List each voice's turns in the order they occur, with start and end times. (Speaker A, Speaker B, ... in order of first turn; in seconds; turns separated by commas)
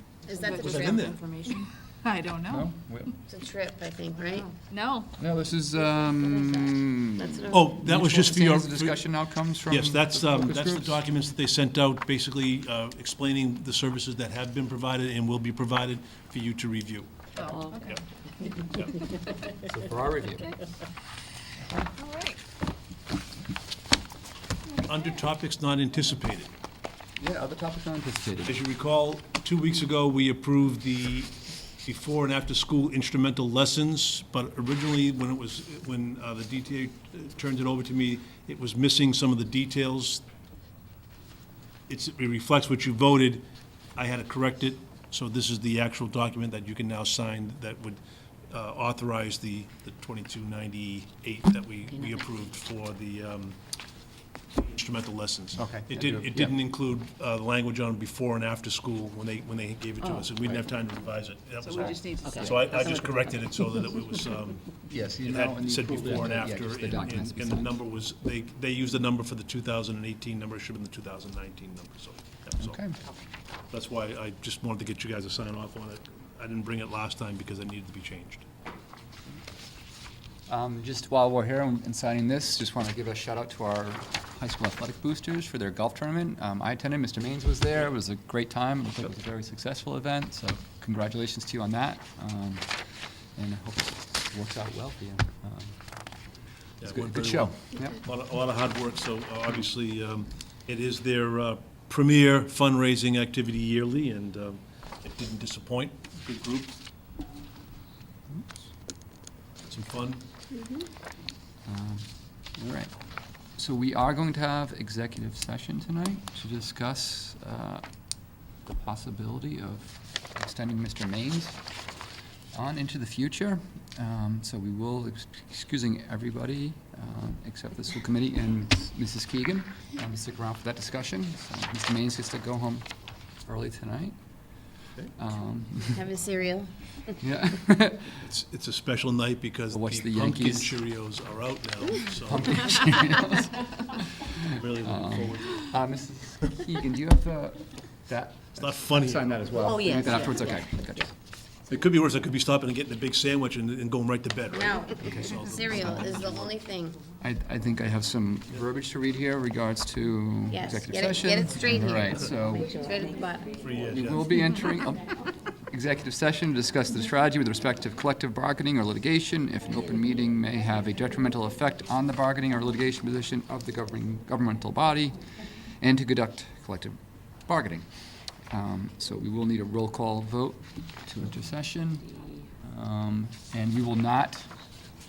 Speaker A: 0.2-1.2, Speaker B: 0.4-2.7, Speaker C: 0.6-1.2, Speaker D: 2.5-3.1, Speaker A: 3.3-4.5, Speaker B: 4.3-5.1, Speaker D: 5.2-11.0, Speaker A: 5.8-7.7, Speaker C: 7.5-9.1, Speaker C: 9.7-18.0, Speaker B: 17.4-18.0, Speaker C: 18.7-19.0, Speaker D: 19.6-20.6, Speaker B: 21.9-22.4, Speaker C: 24.8-26.5, Speaker D: 27.2-28.6, Speaker C: 28.5-31.3, Speaker C: 31.8-40.2, Speaker C: 41.9-43.4, Speaker C: 44.0-48.0, Speaker C: 48.5-53.6, Speaker C: 54.6-64.7, Speaker D: 55.6-56.5, Speaker B: 61.6-62.8, Speaker A: 62.4-63.2, Speaker D: 64.9-67.7, Speaker C: 65.2-72.8, Speaker D: 72.6-73.0, Speaker C: 73.7-78.4, Speaker D: 80.5-95.8, Speaker C: 96.8-106.7, Speaker D: 96.8-98.0, Speaker C: 109.7-110.2, Speaker D: 111.7-112.9, Speaker D: 113.5-117.8, Speaker D: 118.6-121.6, Speaker D: 122.5-134.2, Speaker D: 135.2-136.1, Speaker A: 135.9-137.0, Speaker D: 137.1-138.2, Speaker C: 138.2-142.8, Speaker D: 139.7-140.7, Speaker D: 142.3-151.1, Speaker C: 144.4-145.7, Speaker C: 148.6-149.4, Speaker A: 149.5-151.0, Speaker C: 151.7-156.6, Speaker A: 154.5-157.0, Speaker D: 155.0-155.4, Speaker D: 157.2-162.8, Speaker A: 160.5-163.6, Speaker C: 163.6-164.4, Speaker D: 163.9-175.2, Speaker D: 175.8-177.9, Speaker D: 178.5-184.5